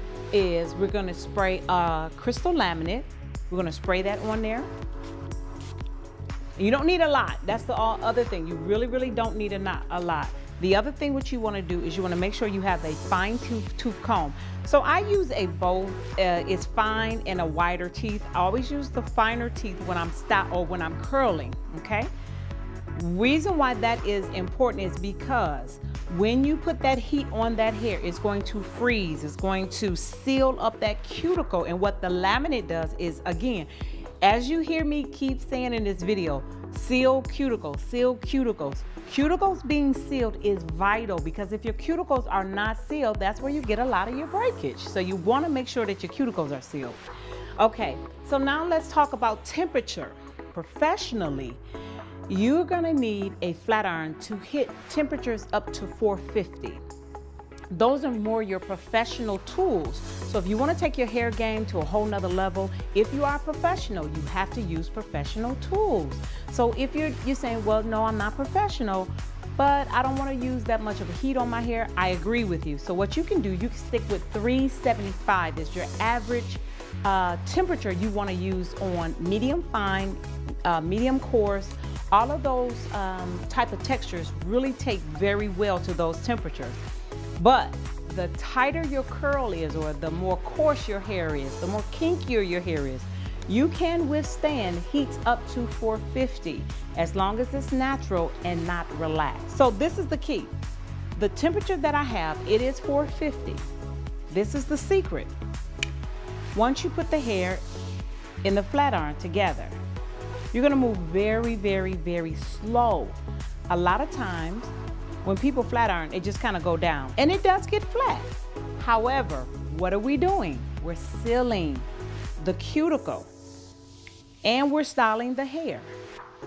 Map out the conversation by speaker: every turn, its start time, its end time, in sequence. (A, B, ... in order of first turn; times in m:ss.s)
0:00.3-0:04.7 A
0:06.6-0:22.1 A
0:22.9-0:33.7 A
0:34.2-0:47.0 A
0:47.6-0:51.6 A
0:52.3-0:56.8 A
0:57.7-1:26.8 A
1:27.4-1:40.5 A
1:41.1-1:43.6 A
1:44.3-1:45.3 A
1:46.5-1:47.6 A
1:48.4-1:49.8 A
1:50.5-1:53.2 A
1:53.7-2:01.9 A
2:02.4-2:03.3 A
2:04.4-2:05.9 A